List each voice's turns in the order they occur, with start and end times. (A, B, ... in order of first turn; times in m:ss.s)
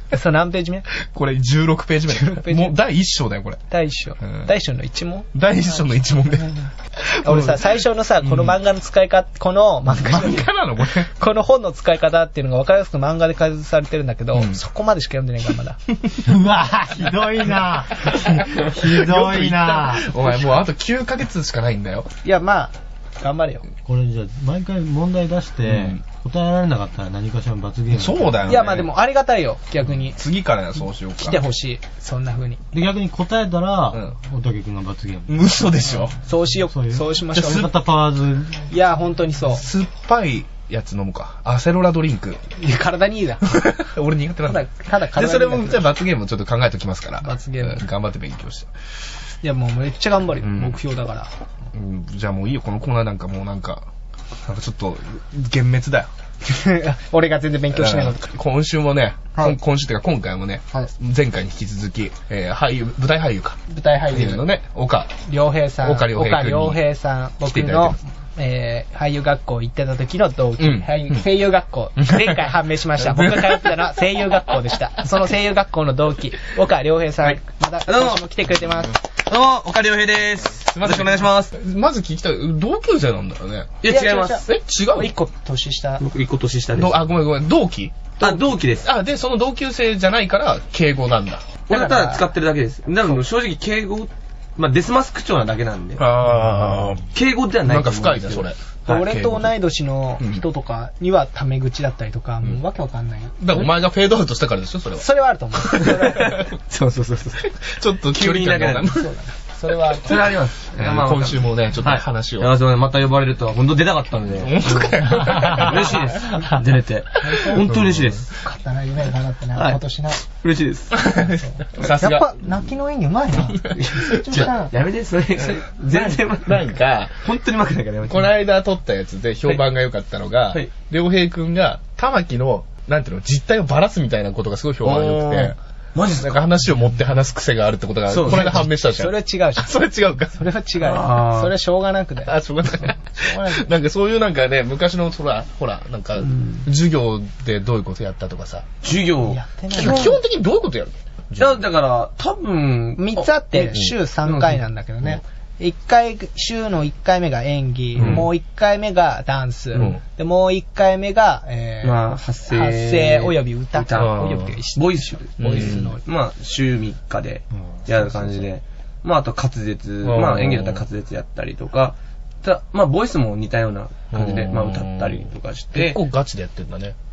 0:00.1-0:00.9 A
0:01.0-0:03.6 B
0:02.1-0:02.8 A
0:03.7-0:06.5 A
0:04.2-0:04.5 B
0:05.3-0:06.5 B
0:07.1-0:08.6 B
0:07.2-0:15.8 A
0:09.9-0:11.1 B
0:14.3-0:14.6 B
0:16.2-0:20.2 C
0:18.3-0:22.1 B
0:22.2-0:23.7 A
0:23.8-0:28.7 C
0:25.7-0:26.0 B
0:27.9-0:28.9 B
0:28.5-0:30.2 A
0:30.1-0:31.4 B
0:31.2-0:32.6 A
0:32.7-0:35.6 C
0:35.3-0:36.2 B
0:35.9-0:37.7 A
0:36.7-0:38.7 C
0:37.3-0:37.7 B
0:38.7-0:39.7 A
0:39.5-0:42.4 B
0:42.6-0:43.7 A
0:43.4-0:48.7 B
0:44.5-0:45.9 A
0:47.2-0:47.9 A
0:49.4-0:51.3 A
0:50.4-0:50.8 B
0:51.7-0:53.9 B
0:54.4-0:56.1 B
0:56.4-0:58.2 A
0:57.7-1:05.1 B
1:03.7-1:04.5 A
1:05.3-1:19.0 A
1:05.8-1:06.8 B
1:07.5-1:08.0 B
1:10.6-1:11.2 B
1:12.1-1:14.0 B
1:17.2-1:18.2 D
1:19.1-1:21.5 D
1:20.7-1:23.8 B
1:23.8-1:24.4 D
1:23.8-1:26.0 A
1:24.4-1:25.1 B
1:26.0-1:27.0 D
1:26.8-1:31.6 B
1:28.2-1:28.9 D
1:31.7-1:32.2 A
1:31.7-1:36.1 D
1:36.0-1:37.1 B
1:37.1-1:39.0 D
1:37.6-1:39.5 B
1:38.9-1:43.6 A
1:43.4-1:45.1 B
1:45.0-1:46.4 A
1:45.7-1:46.4 B
1:45.7-1:47.5 D
1:47.6-1:49.1 B
1:48.1-1:49.0 D
1:48.9-1:50.2 A
1:50.0-1:58.3 D
1:50.8-1:52.5 B
1:54.4-1:56.4 B
1:57.2-1:57.7 A
1:57.5-1:58.2 B
1:58.3-2:00.2 A
1:59.6-2:01.0 D
2:00.9-2:02.4 B
2:01.4-2:04.7 A
2:03.4-2:04.2 B
2:03.8-2:06.7 D
2:05.9-2:07.2 B
2:07.2-2:08.3 D
2:08.1-2:20.4 B
2:14.8-2:16.4 D
2:18.1-2:18.6 D
2:18.3-2:19.8 A
2:20.3-2:23.7 A
2:20.8-2:21.5 D
2:22.3-2:28.7 B
2:28.8-2:30.2 D
2:29.2-2:30.2 A
2:29.7-2:31.6 B
2:31.4-2:34.6 D
2:33.0-2:46.0 A
2:38.0-2:38.3 B
2:38.0-2:38.3 D
2:41.8-2:56.0 D
2:43.9-2:44.5 B
2:45.4-2:45.9 B
2:50.0-2:50.8 B
2:54.1-2:57.0 B